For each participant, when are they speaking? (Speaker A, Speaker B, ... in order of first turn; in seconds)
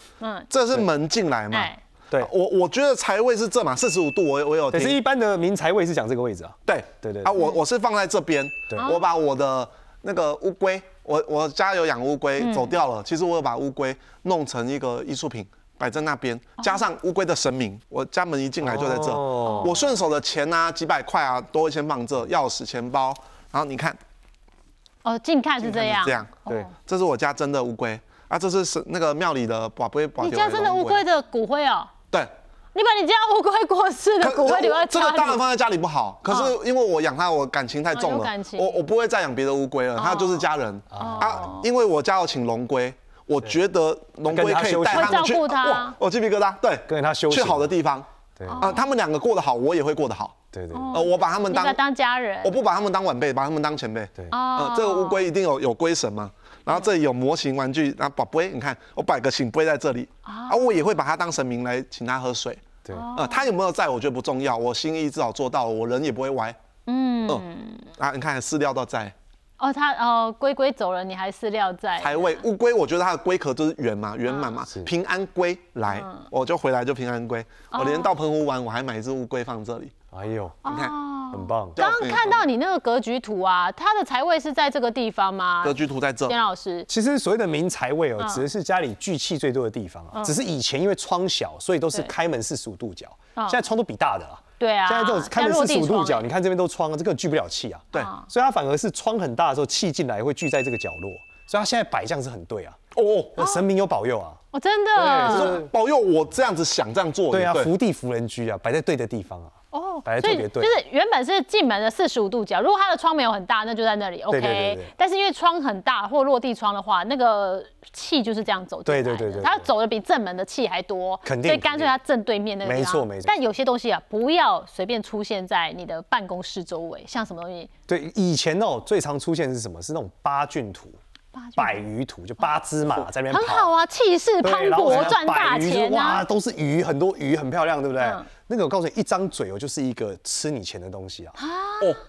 Speaker A: 0.2-0.5, 1.5-1.8, 8.8-9.0, 12.4-12.8, 19.4-19.9, 25.0-26.7, 30.2-31.9, 32.7-35.4, 36.3-36.5, 37.9-38.8, 40.0-41.6, 44.9-46.0, 48.5-48.8, 50.7-52.5, 54.3-55.2, 60.2-60.7, 62.9-63.5, 66.9-67.9, 69.6-72.4, 74.3-74.5, 75.9-76.2, 77.7-78.1, 80.6-86.9, 88.2-88.4, 93.3-93.6, 94.6-96.2, 97.9-98.2, 104.5-105.6, 109.7-127.7, 131.3-131.8, 133.3-136.2, 138.0-138.2, 141.4-142.0
Speaker B: 0.5-5.0, 6.7-24.0, 25.6-31.0, 34.2-48.0, 48.6-50.4, 50.9-51.8, 52.4-66.6, 68.0-69.1, 72.0-79.9, 80.7-81.0, 81.8-82.4, 85.6-86.3, 102.9-103.4, 105.1-107.7, 134.9-135.1
Speaker C: 4.7-7.3, 8.7-8.9, 18.6-19.7, 40.9-41.5, 44.3-45.3, 46.9-47.7, 48.4-48.7, 50.5-51.0, 80.1-80.6, 81.3-81.9, 86.9-102.8, 103.3-104.4, 104.9-105.7, 107.3-110.8, 114.3-114.9, 118.8-119.7, 121.2-121.9, 122.6-123.3, 127.9-131.0, 131.6-133.7, 134.4-141.3